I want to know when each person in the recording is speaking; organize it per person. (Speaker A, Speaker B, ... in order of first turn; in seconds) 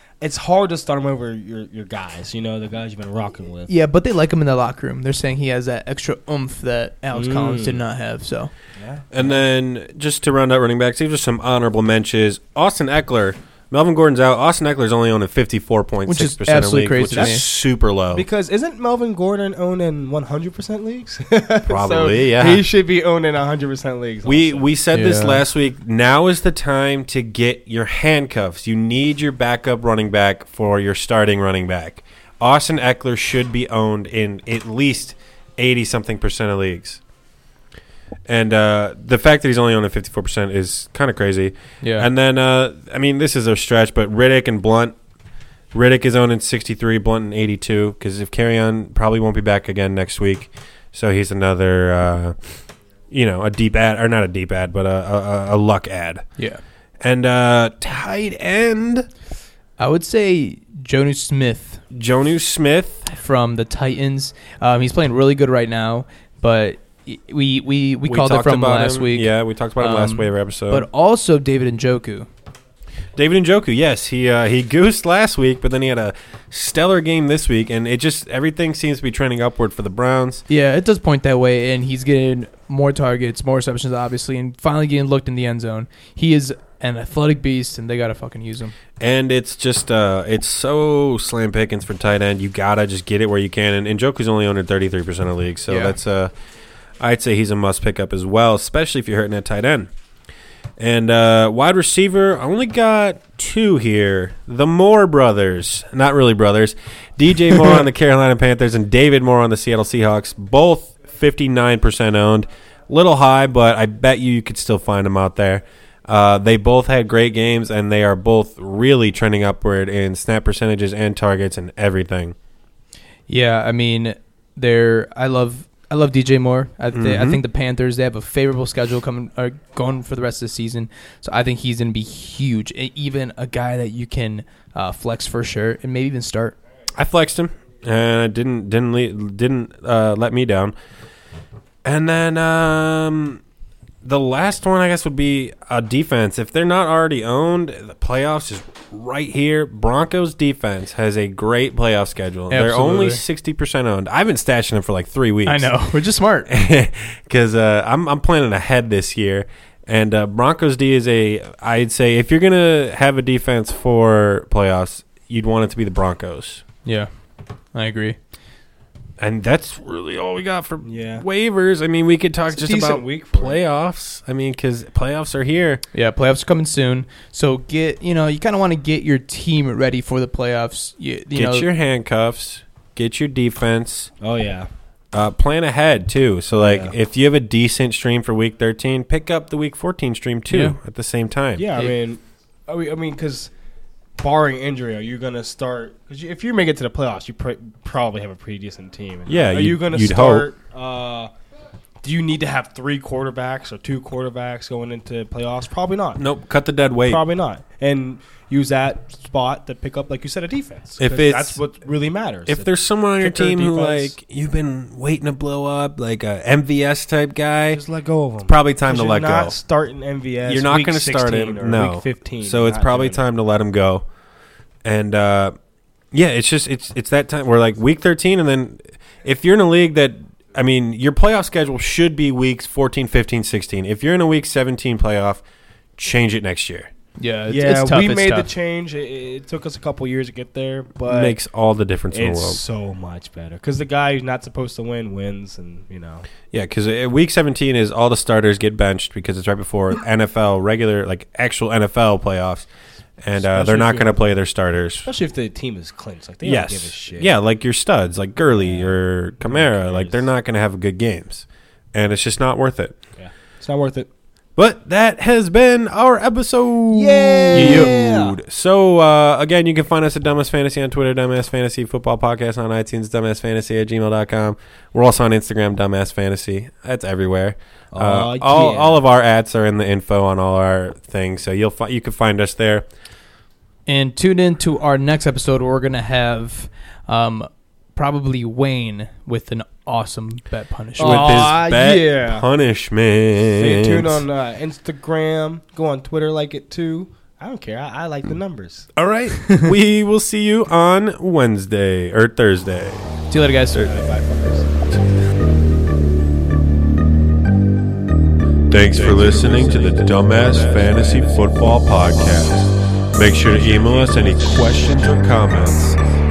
Speaker A: 0.2-3.7, 7.1-7.8, 8.8-9.3, 17.1-24.7, 170.8-171.2, 172.5-173.6, 184.2-184.7, 186.5-186.9, 191.6-193.5, 194.2-201.3, 202.0-206.2, 207.1-214.1, 217.7-223.2, 237.5-241.3, 242.1-246.3, 253.3-254.3, 255.0-257.3, 258.5-260.2, 263.2-264.1, 266.9-268.4, 277.9-279.0, 291.0-292.5, 293.6-298.9, 303.8-304.7, 308.9-311.5, 313.4-315.9
Speaker B: 3.7-8.5, 16.1-17.4, 24.9-25.4, 41.8-42.1, 59.8-61.8, 63.1-72.3, 80.5-88.7, 95.7-96.0, 123.3-136.6, 152.5-153.2, 155.4-156.5, 167.7-168.2, 175.9-181.7, 190.5-190.8, 237.2-238.5, 267.5-267.9, 283.9-291.5, 299.3-299.7, 303.3-303.9
Speaker C: 9.1-18.2, 21.7-22.6, 24.2-37.0, 38.2-44.9, 45.7-52.3, 53.1-56.2, 57.0-59.1, 61.9-63.1, 68.0-70.8, 73.2-80.4, 89.0-96.3, 97.0-99.9, 100.8-122.3, 126.9-127.4, 136.9-140.7, 141.8-143.4, 144.0-155.7, 156.5-166.6, 169.2-175.8, 181.3-184.1, 185.1-191.7, 199.3-200.5, 206.2-207.2, 211.0-211.6, 212.5-217.8, 218.4-219.6, 220.4-224.0, 224.8-225.5, 226.1-235.4, 236.0-236.9, 241.1-242.6, 246.5-252.7, 253.2-255.1, 256.4-263.0, 264.6-282.9, 291.0-294.2, 298.9-303.1, 308.7-316.0